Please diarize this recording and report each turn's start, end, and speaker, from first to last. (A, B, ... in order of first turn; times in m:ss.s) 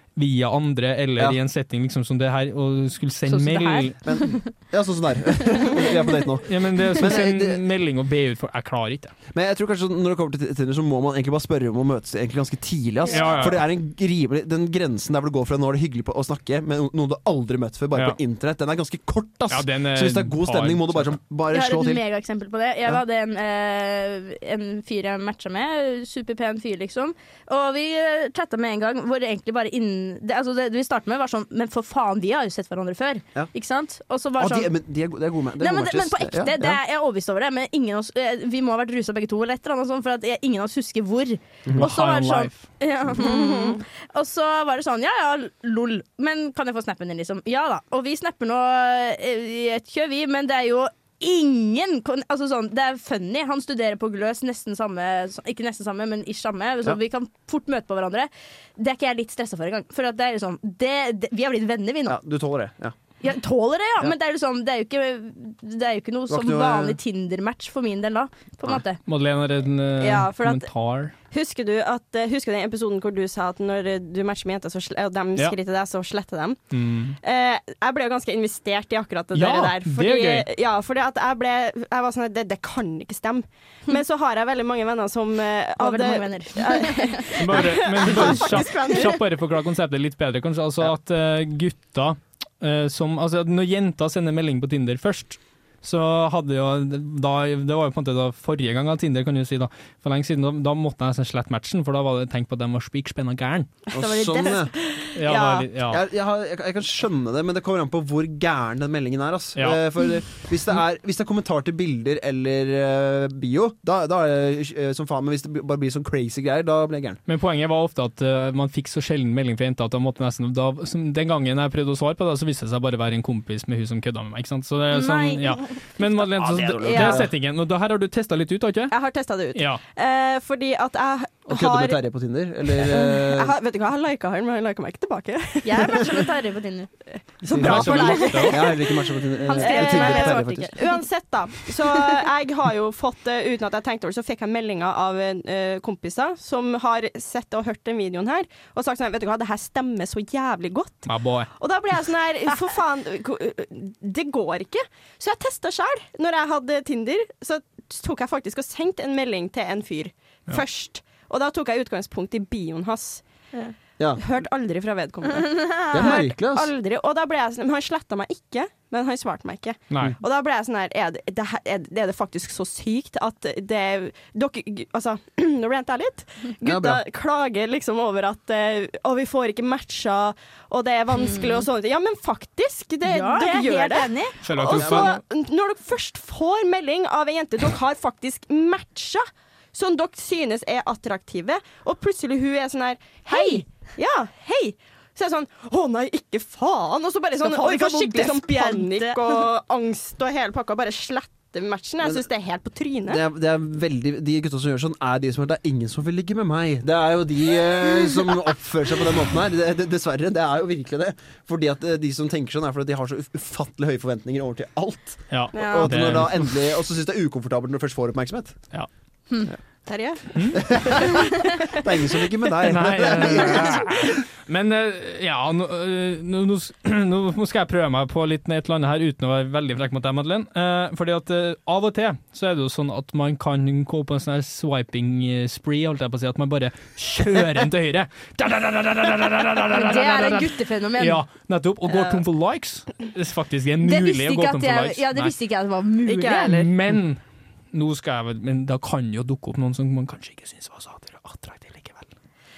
0:00.2-0:04.0 A
0:03.3-0:04.5 B
0:04.0-0:07.6 C
0:06.4-0:09.1 A
0:09.3-0:22.0 C
0:13.1-0:13.6 A
0:13.1-0:13.5 B
0:19.5-0:21.2 A
0:21.5-0:34.7 B
0:34.4-0:36.8 C
0:35.6-1:02.2 B
0:41.7-0:42.6 A
0:43.2-0:43.8 D
1:02.1-1:03.0 C
1:03.2-1:09.0 B
1:06.3-1:07.0 C
1:09.1-1:11.1 A
1:10.0-1:10.7 D
1:11.3-1:16.6 D
1:16.7-1:17.2 A
1:17.2-1:29.2 D
1:19.3-1:20.5 A
1:25.8-1:27.4 B
1:27.4-1:43.7 A
1:28.5-1:29.0 B
1:43.9-1:45.7 D
1:43.9-1:44.7 C
1:45.1-1:46.0 A
1:45.8-1:57.2 C
1:49.6-1:49.8 A
1:57.3-2:08.9 A
2:04.9-2:05.8 B
2:06.4-2:07.3 C
2:06.8-2:07.2 D
2:08.9-2:12.0 D
2:09.5-2:09.8 A
2:11.5-2:13.6 C
2:12.8-2:16.3 D
2:15.6-2:16.9 B
2:17.4-2:43.2 D
2:17.5-2:20.7 C
2:17.5-2:18.6 A
2:17.7-2:18.6 B
2:19.4-2:21.0 B
2:21.8-2:22.1 B
2:31.1-2:31.5 A
2:44.2-3:23.2 D
2:45.4-2:46.2 B
2:45.9-2:46.7 C
2:56.6-2:57.0 C
3:01.3-3:01.6 B
3:03.0-3:04.4 B
3:04.4-3:05.2 A
3:04.8-3:05.1 C
3:13.3-3:13.6 B
3:17.4-3:19.4 B
3:22.0-3:22.3 C
3:23.1-3:38.6 C
3:35.3-3:36.5 A
3:35.5-3:35.9 D
3:35.5-3:35.9 B
3:39.9-3:41.8 D
3:40.3-3:40.6 A
3:40.5-3:44.2 C
3:42.6-4:05.3 A
3:59.7-4:01.2 B
4:01.9-4:02.2 D
4:03.8-4:06.6 B
4:06.1-4:06.7 D
4:06.4-4:07.2 A
4:07.7-4:12.1 A